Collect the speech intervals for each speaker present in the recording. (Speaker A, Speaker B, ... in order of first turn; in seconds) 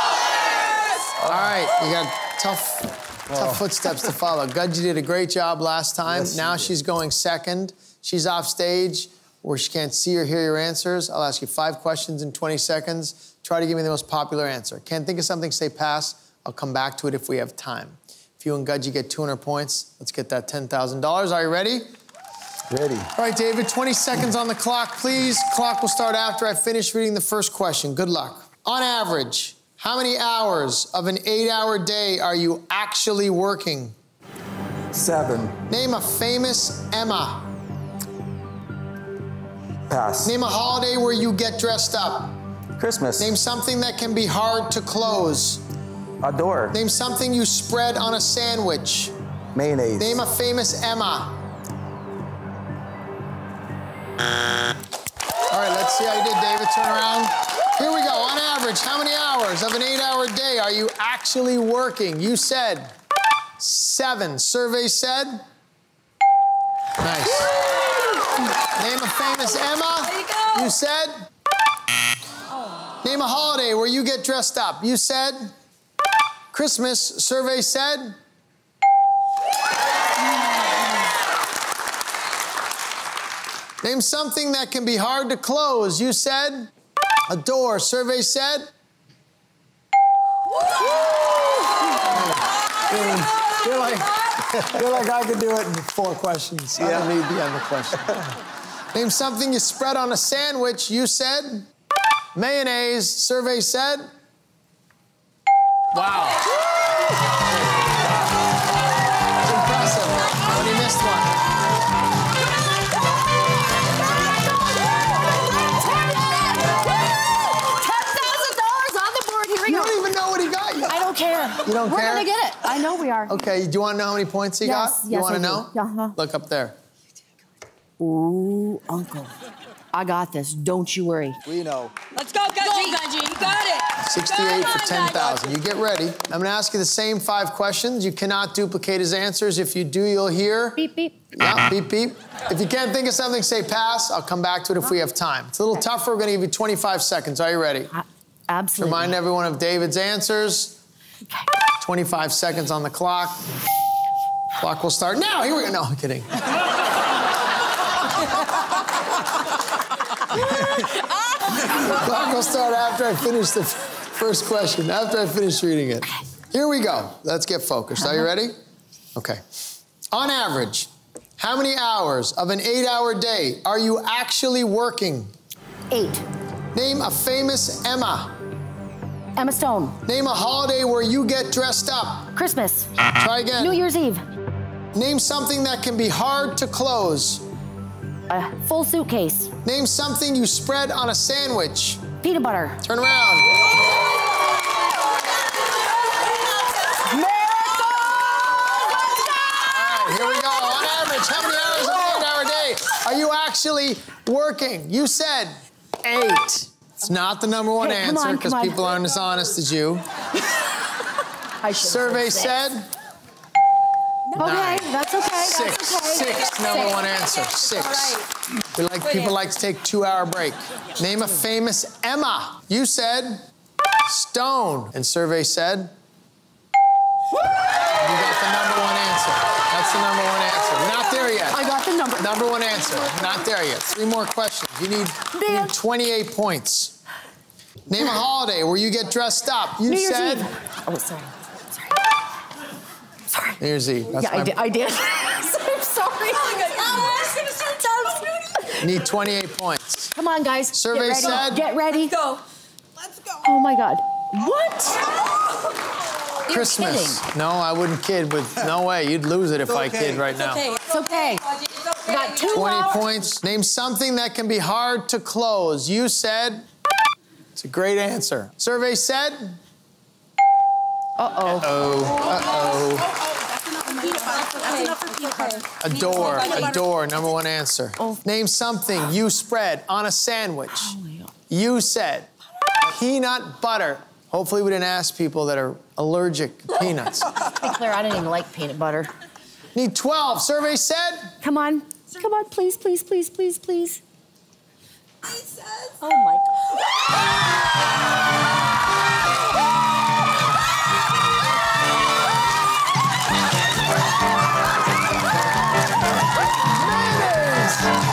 Speaker A: 1.2-21.8, 23.1-33.9, 35.7-37.5, 40.2-42.4, 43.2-45.6, 46.7-49.1, 50.0-51.3, 55.5-62.9, 63.6-65.4, 67.0-67.5, 68.6-71.1, 73.0-75.5, 76.5-78.2, 83.8-86.7, 87.3-88.7, 92.0-98.1, 98.9-101.7, 102.3-104.1, 105.9-106.4, 107.7-108.1, 109.4-111.3, 119.6-121.0, 121.6-122.3, 123.3-126.7, 134.0-140.8, 141.3-147.9, 148.8-150.8, 151.8-153.4, 154.6-156.5, 161.6-168.5, 169.1-169.4, 170.1-175.3, 176.7-178.3, 180.0-182.3, 183.0-183.8, 184.9-187.4, 189.6-192.1, 192.8-193.6, 199.5-210.1, 211.8-212.9, 214.4-223.4, 224.0-225.9, 227.8-236.9, 237.9-240.5, 243.6-244.6, 248.8-250.1, 250.7-251.6, 256.5-260.7, 262.4-266.6, 267.6-269.6, 271.4-273.1, 275.8-280.9, 281.5-282.3, 282.8-287.5, 289.7-291.3, 306.7-308.0
Speaker B: 6.2-6.6, 22.7-23.1, 34.9-35.6, 39.9-40.4, 42.8-43.3, 46.2-46.8, 49.5-50.2, 96.8-97.1, 131.4-131.9
Speaker C: 115.8-116.8, 117.4-120.0, 120.9-123.3, 124.6-126.1, 128.0-129.3, 129.9-131.4, 132.6-133.5, 140.8-141.2, 147.9-149.1, 175.9-176.2, 179.3-180.0, 182.3-182.9, 183.6-184.2, 188.3-189.5, 192.2-192.8, 197.1-198.3, 207.8-209.0, 211.6-212.6, 214.3-216.9, 231.3-232.5, 235.3-235.7, 239.8-242.0, 243.3-243.6, 244.1-248.8, 250.1-252.2, 253.4-255.0, 256.4-257.2, 260.8-263.1, 271.2-271.7, 273.9-275.6, 280.7-281.3, 287.4-289.1, 291.4-294.0, 295.9-296.4
Speaker D: 132.1-133.8, 134.5-135.3, 260.4-262.1, 274.1-275.6